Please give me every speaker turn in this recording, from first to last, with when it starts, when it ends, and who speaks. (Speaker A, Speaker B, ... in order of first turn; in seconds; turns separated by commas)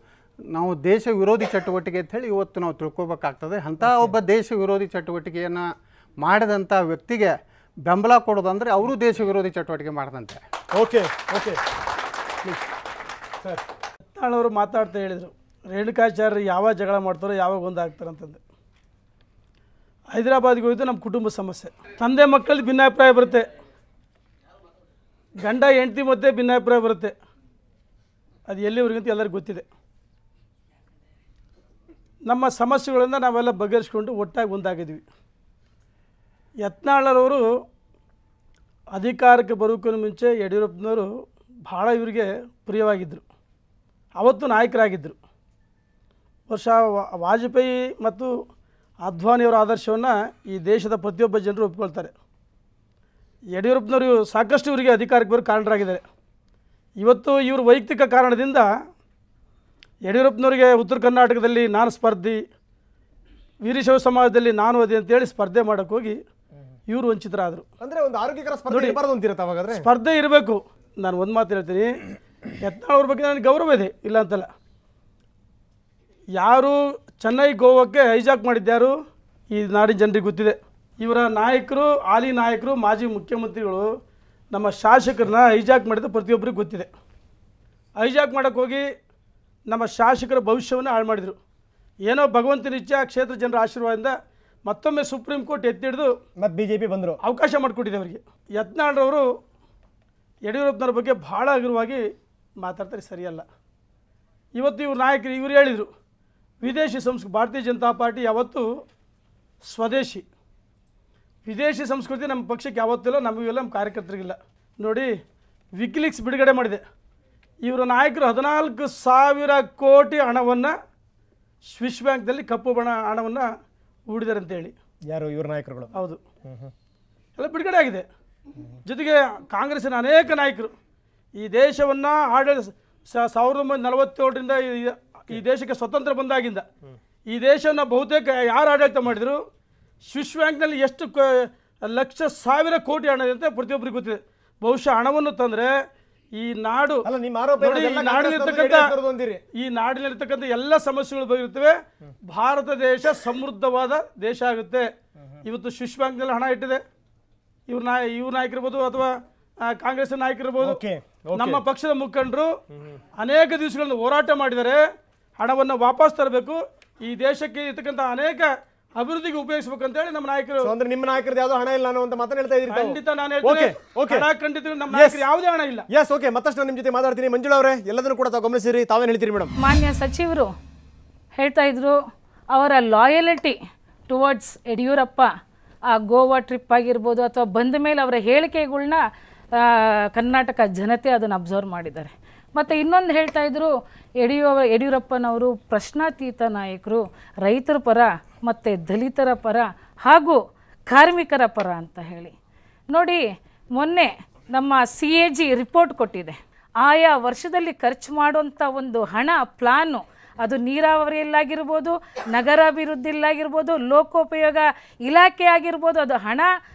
Speaker A: 0.5-5.7, Speaker A: 6.2-10.4, Speaker B: 10.7-11.6, Speaker C: 14.2-18.4, Speaker C: 20.1-23.5, Speaker C: 25.4-27.1, Speaker C: 28.5-29.6, Speaker C: 32.3-35.0, Speaker C: 36.6-37.4, Speaker C: 38.9-41.1, Speaker C: 41.7-43.2, Speaker C: 44.2-45.2, Speaker C: 46.5-48.3, Speaker C: 49.0-52.1, Speaker C: 53.6-56.0, Speaker C: 57.0-58.7, Speaker C: 60.0-62.4, Speaker C: 63.6-66.2, Speaker C: 66.9-67.6, Speaker B: 67.8-69.9, Speaker C: 68.7-69.0, Speaker C: 69.7-72.0, Speaker C: 72.6-74.5, Speaker C: 76.4-78.9, Speaker C: 79.5-83.9, Speaker C: 84.5-86.9, Speaker C: 88.0-88.9, Speaker C: 89.7-91.4, Speaker C: 92.0-94.2, Speaker C: 94.7-96.2, Speaker B: 96.4-97.2, Speaker C: 97.2-99.3, Speaker C: 100.5-102.0, Speaker C: 102.6-103.5, Speaker C: 104.5-105.9, Speaker C: 106.6-108.7, Speaker C: 109.6-110.3, Speaker C: 111.5-115.1, Speaker C: 115.8-116.8, Speaker C: 117.6-120.8, Speaker C: 121.7-123.5, Speaker C: 124.1-124.7, Speaker B: 125.1-125.9, Speaker C: 125.9-126.2, Speaker B: 126.5-126.7, Speaker C: 127.4-128.1, Speaker C: 128.8-130.7, Speaker C: 131.4-136.7, Speaker C: 137.3-139.4, Speaker C: 140.1-145.7, Speaker C: 146.4-147.1, Speaker B: 147.1-149.4, Speaker C: 147.7-148.9, Speaker C: 149.6-154.9, Speaker C: 155.4-156.8, Speaker C: 157.7-159.1, Speaker C: 159.7-160.8, Speaker B: 160.6-161.6, Speaker C: 161.3-162.5, Speaker C: 163.2-164.8, Speaker C: 165.4-170.7, Speaker B: 170.6-174.3, Speaker C: 172.7-175.9, Speaker B: 174.9-175.2, Speaker B: 175.9-179.5, Speaker D: 179.6-180.5, Speaker D: 181.3-182.0, Speaker D: 182.5-183.6, Speaker D: 184.1-185.3, Speaker D: 185.9-189.0, Speaker D: 189.6-202.3, Speaker D: 202.9-203.2, Speaker D: 203.7-216.5